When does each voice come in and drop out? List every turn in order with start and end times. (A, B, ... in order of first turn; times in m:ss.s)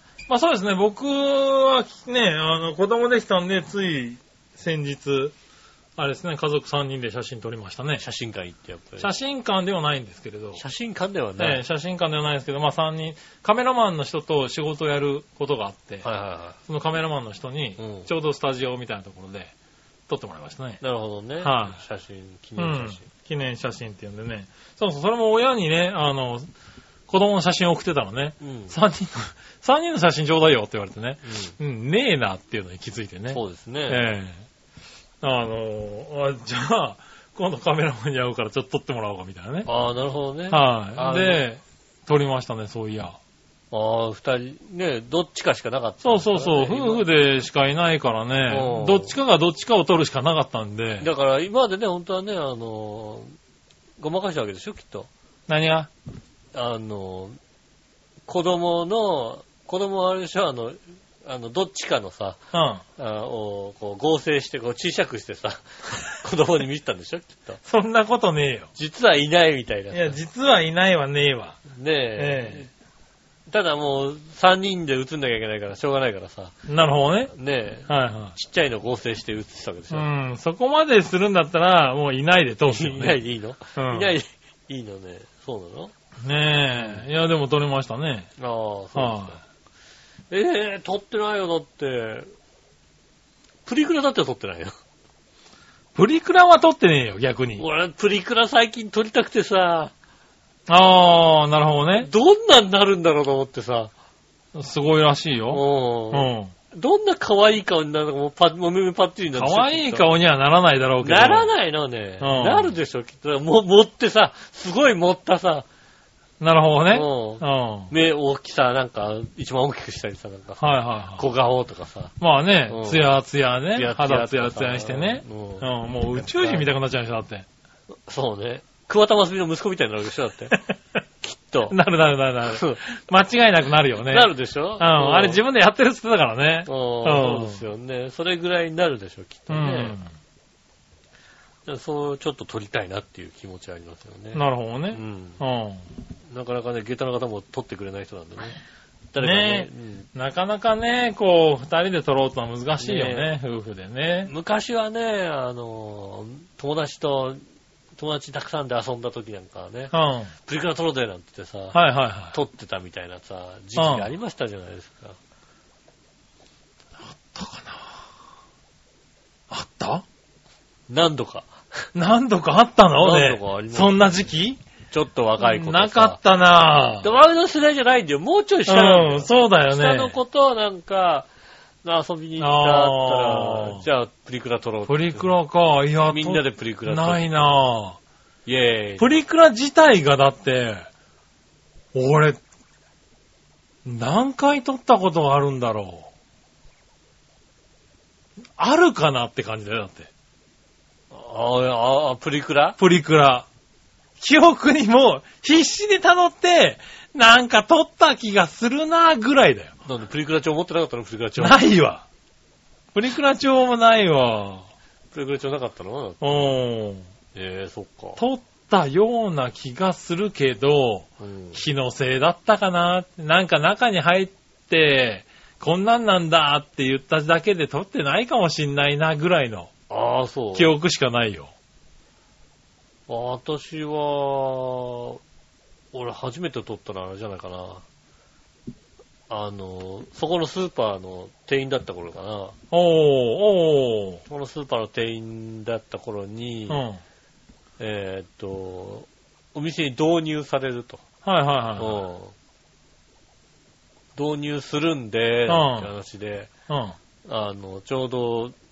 0:00.3-0:05.3 A
0:06.0-0:08.0 A
0:08.0-0:09.1 B
0:09.0-0:10.6 A
0:10.6-0:11.6 B
0:11.4-0:16.0 A
0:16.0-0:16.6 B
0:16.6-0:19.5 A
0:17.8-0:18.1 B
0:20.1-0:20.8 A
0:20.8-0:23.0 B
0:21.4-0:21.8 A
0:22.6-0:26.5 A
0:27.1-0:34.4 A
0:28.4-0:28.8 B
0:31.2-0:31.5 B
0:33.3-0:34.1 B
0:35.2-0:39.7 A
0:39.6-0:41.4 B
0:40.5-0:43.2 A
0:43.7-0:47.0 B
0:46.0-0:51.1 A
0:48.5-0:49.1 B
0:51.0-0:53.3 B
0:54.0-0:55.1 B
0:55.5-0:55.9 A
0:56.5-0:57.4 B
0:58.3-1:02.4 B
1:02.5-1:02.8 A
1:03.0-1:07.6 B
1:07.6-1:08.7 A
1:08.7-1:10.2 B
1:09.9-1:11.6 A
1:11.7-1:12.7 B
1:12.2-1:12.7 A
1:13.5-1:16.5 B
1:16.7-1:17.3 A
1:17.3-1:20.1 B
1:17.9-1:18.3 A
1:19.9-1:23.2 A
1:22.7-1:25.9 B
1:23.8-1:24.1 A
1:26.2-1:28.3 A
1:26.7-1:27.0 B
1:28.4-1:29.4 B
1:28.9-1:29.4 A
1:30.3-1:32.3 B
1:33.6-1:34.7 B
1:35.9-1:37.6 A
1:37.6-1:39.9 B
1:40.7-1:42.1 A
1:42.0-1:43.9 B
1:44.5-1:46.5 A
1:45.5-1:50.1 B
1:49.3-1:51.5 A
1:51.0-1:55.6 B
1:52.2-1:52.7 A
1:56.4-1:57.9 A
1:56.9-2:02.1 B
2:00.6-2:01.2 A
2:02.2-2:07.4 A
2:02.7-2:03.1 B
2:03.7-2:06.7 B
2:08.1-2:10.6 B
2:11.2-2:11.8 B
2:11.7-2:17.6 A
2:12.4-2:12.8 B
2:14.0-2:15.4 B
2:16.6-2:20.0 B
2:19.5-2:20.1 A
2:21.6-2:25.4 B
2:24.3-2:25.9 A
2:26.3-2:28.6 B
2:29.1-2:30.1 B
2:29.2-2:34.3 A
2:32.8-2:33.3 B
2:34.3-2:37.4 B
2:38.0-2:39.9 B
2:39.9-2:40.3 A
2:40.4-2:41.8 B
2:41.7-2:42.3 A
2:42.3-2:45.2 B
2:43.8-2:44.1 A
2:47.1-2:48.0 A
2:49.5-2:50.0 A
2:50.9-2:51.5 B
2:51.9-2:54.6 A
2:53.0-2:54.1 B
2:54.9-2:56.2 B
2:55.4-2:57.1 A
2:57.0-3:01.3 B
2:58.7-3:00.2 A
3:01.8-3:05.3 B
3:02.4-3:03.8 A
3:04.9-3:08.0 A
3:06.1-3:07.6 B
3:08.4-3:09.2 B
3:09.0-3:10.9 A
3:11.9-3:12.4 A
3:13.8-3:16.1 A
3:18.6-3:20.1 A
3:21.1-3:22.8 B
3:22.8-3:23.4 A
3:24.2-3:29.7 A
3:29.8-3:31.6 B
3:31.4-3:32.0 A
3:32.9-3:34.7 A
3:35.1-3:36.6 B
3:36.2-3:37.1 A
3:37.3-3:38.2 B
3:38.2-3:49.7 A
3:41.2-3:41.6 B
3:49.9-3:50.7 B
3:50.5-3:51.5 A
3:53.1-3:55.2 B
3:55.9-3:57.8 B
3:59.3-4:02.6 B
4:02.7-4:04.2 A
4:04.3-4:06.8 B
4:06.7-4:07.0 A
4:07.8-4:11.0 B
4:11.2-4:12.0 A
4:11.8-4:12.3 B
4:14.2-4:16.5 B
4:15.5-4:15.9 A
4:16.7-4:17.0 A
4:17.2-4:18.5 B